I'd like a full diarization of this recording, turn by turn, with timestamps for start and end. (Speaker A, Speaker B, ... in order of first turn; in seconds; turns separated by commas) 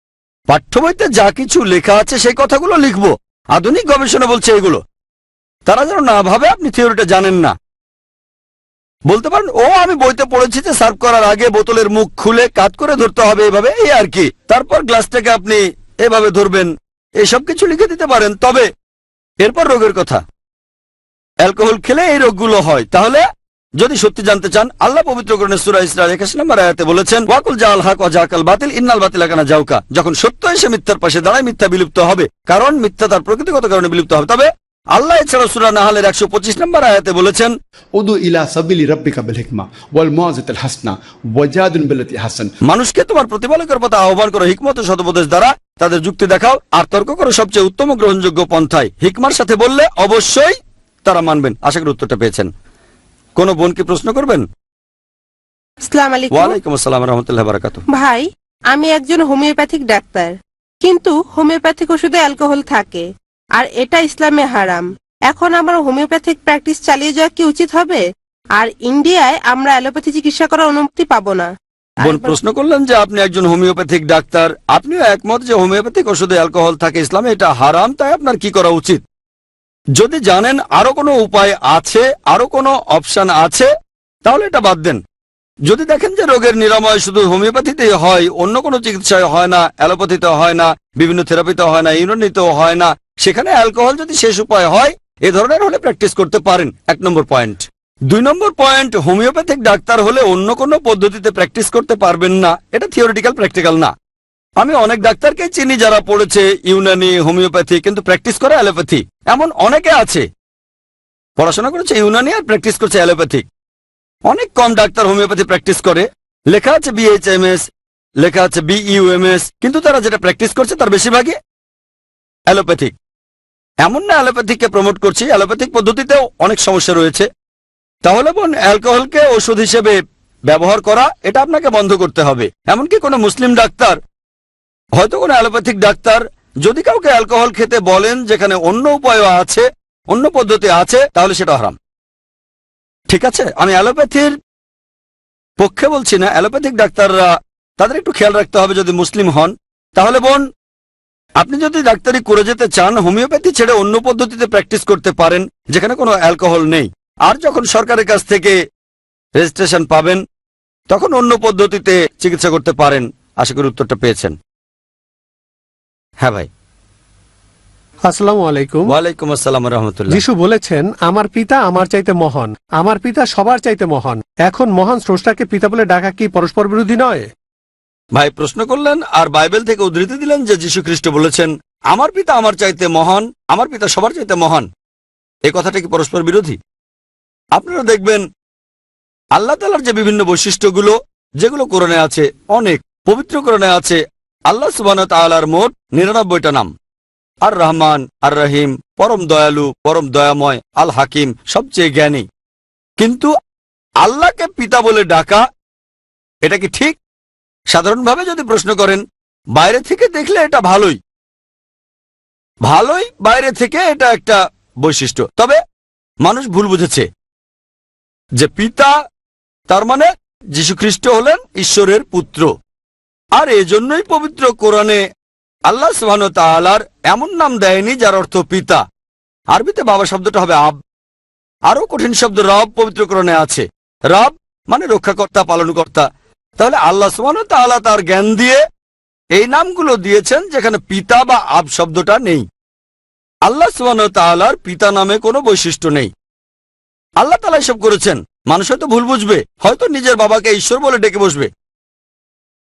Speaker A: 0.5-4.8, Speaker A: 5.7-7.5, Speaker A: 9.1-18.7, Speaker A: 19.4-20.2, Speaker A: 21.4-23.2, Speaker A: 23.8-37.5, Speaker B: 38.0-42.5, Speaker A: 42.6-52.5, Speaker A: 53.4-54.5, Speaker C: 55.9-56.6, Speaker A: 56.3-57.9, Speaker C: 57.9-68.0, Speaker C: 68.6-72.3, Speaker A: 72.0-79.0, Speaker A: 80.0-83.7, Speaker A: 84.2-85.0, Speaker A: 85.7-103.9, Speaker A: 104.6-110.3, Speaker A: 111.4-113.5, Speaker A: 114.3-117.6, Speaker A: 118.2-121.4, Speaker A: 122.5-122.9, Speaker A: 123.8-127.3, Speaker A: 128.1-134.0, Speaker A: 135.0-141.8, Speaker A: 143.1-144.4, Speaker A: 145.6-150.4, Speaker A: 151.4-158.6, Speaker A: 159.4-160.2, Speaker A: 160.9-164.4, Speaker A: 166.2-166.5, Speaker D: 168.1-169.0, Speaker A: 168.9-170.2, Speaker D: 170.1-177.3, Speaker A: 178.2-184.7, Speaker A: 185.5-186.6, Speaker A: 187.6-188.2, Speaker A: 189.3-196.7, Speaker A: 197.4-202.2, Speaker A: 203.0-203.3, Speaker A: 204.0-205.4, Speaker A: 206.4-207.0, Speaker A: 207.7-209.0, Speaker A: 209.6-211.0, Speaker A: 212.7-215.6, Speaker A: 216.2-217.1, Speaker A: 218.4-218.9, Speaker A: 219.7-222.5, Speaker A: 223.4-225.0, Speaker A: 225.7-228.8, Speaker A: 229.5-230.8, Speaker A: 231.7-236.1, Speaker A: 236.6-238.6, Speaker A: 239.3-242.4, Speaker A: 243.5-246.1, Speaker A: 247.2-251.5